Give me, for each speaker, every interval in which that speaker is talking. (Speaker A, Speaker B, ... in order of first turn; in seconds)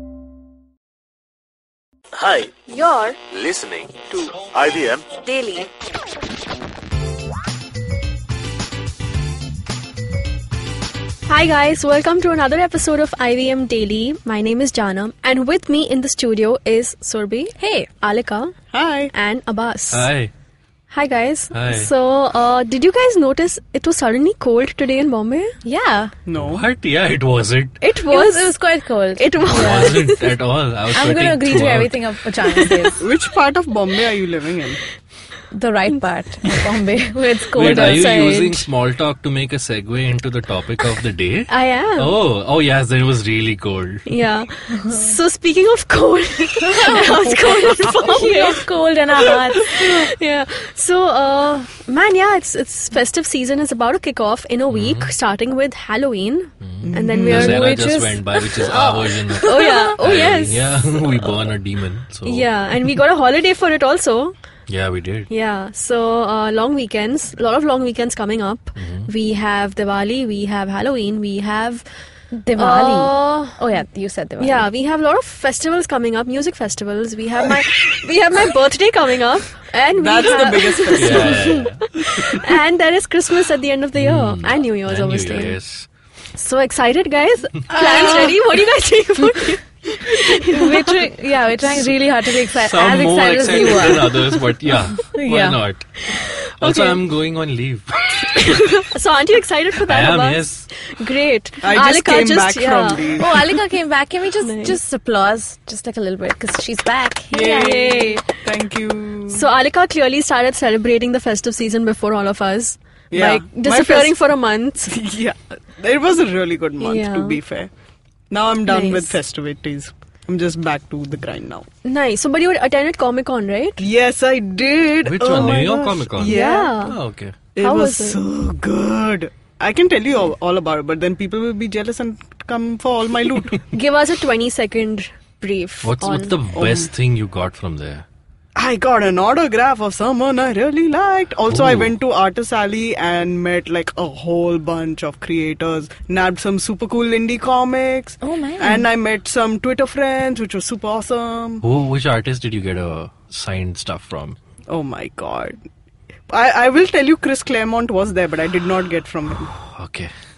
Speaker A: 2.2-2.5, 3.3-5.0
Speaker B: 2.7-3.2, 5.2-5.7, 11.3-18.5, 19.1-20.1, 20.9-25.6, 27.8-28.5, 29.2-30.3, 37.6-38.6, 41.5-42.1, 44.1-48.6, 49.5-57.6, 59.4-61.0, 62.2-64.3, 65.3-71.8, 72.5-73.6, 74.4-85.6, 86.3-91.0, 96.1-97.0, 98.2-103.6, 104.4-104.8, 107.4-108.2, 109.3-114.9, 116.8-117.4, 118.6-119.2, 121.8-123.8, 126.2-127.0, 127.6-128.2, 133.7-136.3
Speaker C: 17.6-17.9, 25.6-26.1, 28.1-30.0, 30.9-33.1, 35.5-38.4, 46.6-49.9, 57.4-59.7, 72.3-74.7, 87.8-88.3, 90.3-94.3, 95.0-95.6, 103.1-108.2, 148.2-148.8
Speaker D: 18.7-19.1, 26.2-26.6, 33.0-34.8, 56.8-57.5, 80.0-82.4, 87.7-88.3, 101.6-103.3, 107.3-109.4, 113.1-114.2, 114.9-117.7, 118.3-121.7, 123.8-126.7, 127.5-133.7, 136.6-136.9, 138.5-151.6, 154.7-155.6, 156.3-159.5
Speaker E: 19.9-20.3, 21.5-21.9, 26.4-27.8, 29.4-32.0, 37.5-44.1, 54.7-55.1, 56.6-62.5, 64.7-65.3, 68.8-69.1, 80.9-81.8, 84.0-85.9, 92.5-98.5, 99.8-100.7, 125.0-127.3, 135.8-138.1, 141.5-141.9, 151.6-154.4, 159.4-160.1